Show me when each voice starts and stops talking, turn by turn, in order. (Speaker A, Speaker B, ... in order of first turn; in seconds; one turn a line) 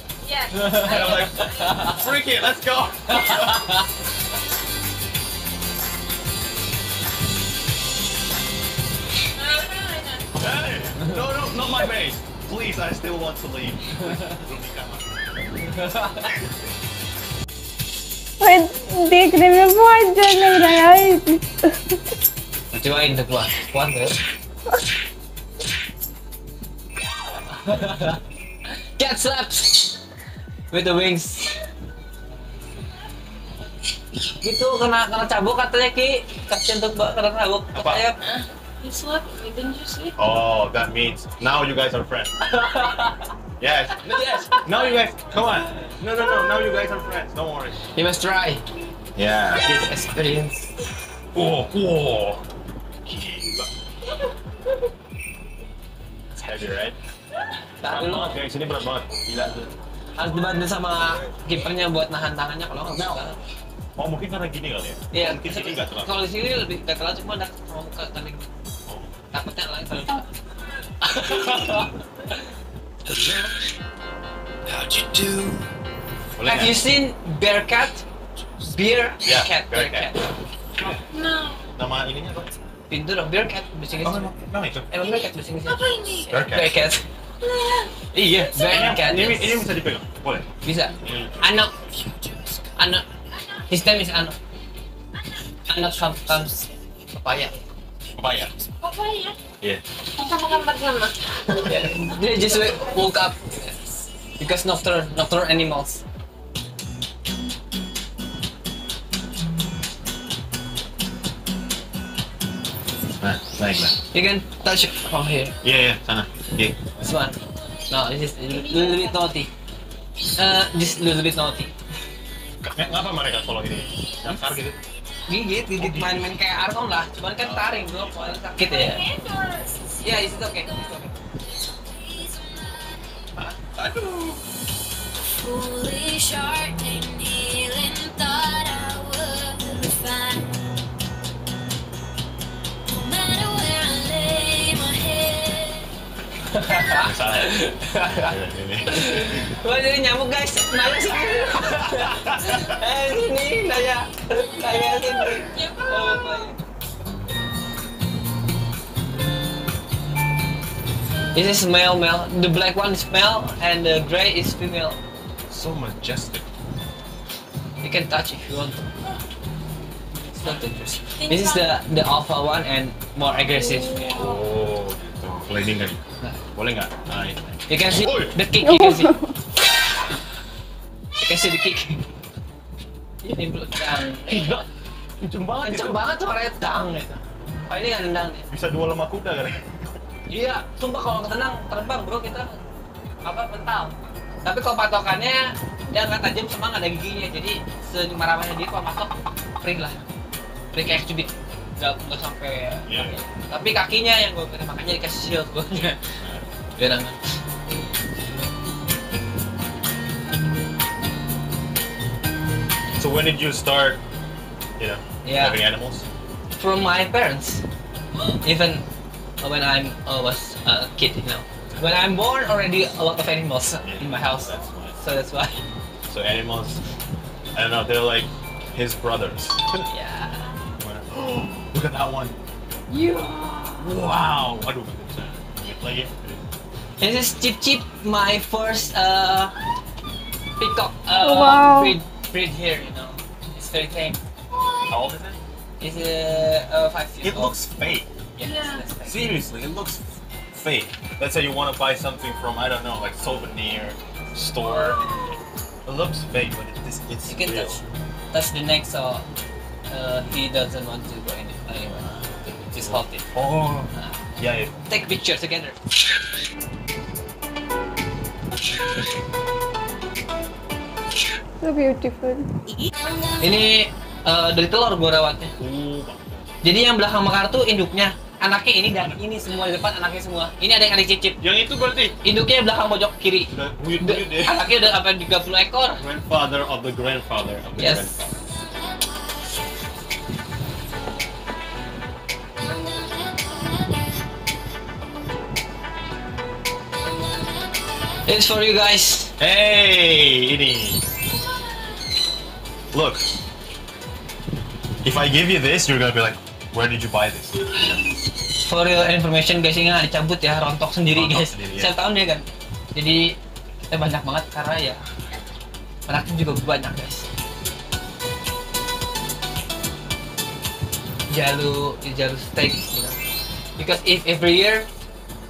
Speaker A: 0.2-2.0
Speaker B: 0.5-2.0
Speaker C: 0.8-3.8
Speaker B: 3.1-3.9
Speaker A: 9.3-10.3
Speaker C: 10.3-15.5
Speaker B: 15.7-16.3
Speaker D: 18.4-22.0
Speaker B: 22.7-24.2
Speaker B: 27.4-28.2
Speaker B: 29.0-30.0
Speaker B: 30.7-31.6
Speaker B: 34.4-38.2
Speaker C: 37.7-38.0
Speaker A: 38.3-40.2
Speaker C: 40.2-42.3
Speaker B: 42.4-43.3
Speaker C: 43.6-47.8
Speaker B: 44.0-44.7
Speaker B: 47.9-48.6
Speaker C: 49.1-49.8
Speaker B: 49.6-50.7
Speaker C: 51.3-52.5
Speaker C: 53.0-53.7
Speaker C: 56.3-57.0
Speaker B: 57.8-58.4
Speaker C: 57.8-59.7
Speaker B: 60.2-63.4
Speaker C: 62.9-63.2
Speaker C: 64.0-66.1
Speaker B: 65.1-68.5
Speaker C: 68.9-69.1
Speaker B: 69.3-70.3
Speaker B: 71.0-72.5
Speaker C: 73.2-73.5
Speaker E: 74.8-75.3
Speaker C: 76.4-76.8
Speaker B: 76.4-78.1
Speaker B: 78.6-80.3
Speaker C: 79.2-80.1
Speaker C: 80.8-81.0
Speaker A: 81.1-81.7
Speaker C: 81.8-82.6
Speaker B: 82.9-84.3
Speaker C: 84.0-85.3
Speaker B: 84.9-85.8
Speaker A: 85.6-86.5
Speaker C: 86.3-86.9
Speaker B: 86.5-87.0
Speaker A: 87.4-88.0
Speaker C: 88.1-90.5
Speaker B: 88.5-89.7
Speaker A: 88.5-89.0
Speaker B: 90.6-91.8
Speaker C: 91.0-91.5
Speaker B: 92.8-93.0
Speaker A: 93.3-93.7
Speaker B: 93.7-94.4
Speaker B: 95.7-97.6
Speaker C: 98.2-98.6
Speaker A: 98.8-99.4
Speaker A: 100.2-101.6
Speaker B: 101.6-103.8
Speaker B: 104.4-106.0
Speaker C: 113.2-114.0
Speaker B: 114.1-115.6
Speaker C: 115.6-116.9
Speaker B: 117.0-119.5
Speaker A: 118.7-119.1
Speaker B: 120.4-121.7
Speaker C: 122.6-124.8
Speaker B: 125.3-129.0
Speaker C: 125.8-126.4
Speaker C: 127.4-128.4
Speaker A: 128.6-129.9
Speaker E: 129.8-133.3
Speaker B: 130.0-131.2
Speaker C: 133.4-134.4
Speaker E: 135.4-140.6
Speaker E: 142.9-145.9
Speaker B: 146.5-148.3
Speaker C: 146.8-149.5
Speaker B: 148.9-156.6
Speaker C: 151.7-152.8
Speaker A: 154.7-156.5
Speaker B: 161.3-165.0
Speaker C: 165.5-166.5
Speaker B: 167.8-168.9
Speaker B: 170.3-174.2
Speaker A: 171.2-171.8
Speaker C: 173.2-176.0
Speaker A: 173.8-174.4
Speaker C: 176.5-178.3
Speaker B: 177.7-179.2
Speaker D: 178.6-179.3
Speaker B: 181.2-182.1
Speaker B: 183.2-184.6
Speaker C: 184.3-184.6
Speaker C: 185.2-186.0
Speaker B: 185.6-188.5
Speaker C: 188.5-189.9
Speaker B: 190.3-192.6
Speaker B: 193.2-200.0
Speaker B: 200.7-206.0
Speaker C: 202.9-203.2
Speaker C: 205.7-206.5
Speaker B: 206.8-207.2
Speaker C: 213.0-214.0
Speaker C: 214.8-216.1
Speaker B: 215.2-215.6
Speaker B: 216.6-217.6
Speaker B: 218.4-218.9
Speaker B: 219.4-225.7
Speaker C: 221.7-222.1
Speaker C: 223.8-225.0
Speaker C: 226.1-226.8
Speaker C: 227.6-229.9
Speaker B: 229.9-230.5
Speaker C: 230.8-232.4
Speaker A: 232.9-233.9
Speaker C: 233.8-236.4
Speaker B: 237.0-239.5
Speaker B: 240.6-244.2
Speaker D: 241.1-242.0
Speaker A: 244.5-245.0
Speaker C: 244.9-245.4
Speaker B: 245.8-247.6
Speaker C: 247.2-248.1
Speaker B: 248.4-249.4
Speaker A: 248.4-248.8
Speaker C: 249.1-255.3
Speaker A: 254.6-255.5
Speaker C: 255.8-257.8
Speaker B: 257.3-257.8
Speaker B: 258.3-259.3
Speaker B: 259.9-262.1
Speaker C: 261.9-264.7
Speaker B: 262.7-263.3
Speaker B: 264.9-265.8
Speaker D: 271.6-272.5
Speaker E: 272.9-273.7
Speaker B: 273.4-275.5
Speaker C: 275.6-276.6
Speaker B: 276.6-281.4
Speaker C: 281.4-282.2
Speaker B: 282.2-286.0
Speaker C: 283.5-284.7
Speaker C: 286.0-288.3
Speaker B: 287.8-288.2
Speaker E: 288.3-289.7
Speaker E: 292.6-294.3
Speaker E: 296.9-298.2
Speaker B: 298.2-299.3
Speaker C: 299.4-301.1
Speaker C: 302.9-303.3
Speaker C: 305.0-307.8
Speaker B: 308.6-313.4
Speaker C: 311.1-311.9
Speaker B: 313.9-315.0
Speaker B: 316.1-317.3
Speaker B: 321.3-323.2
Speaker B: 323.8-324.9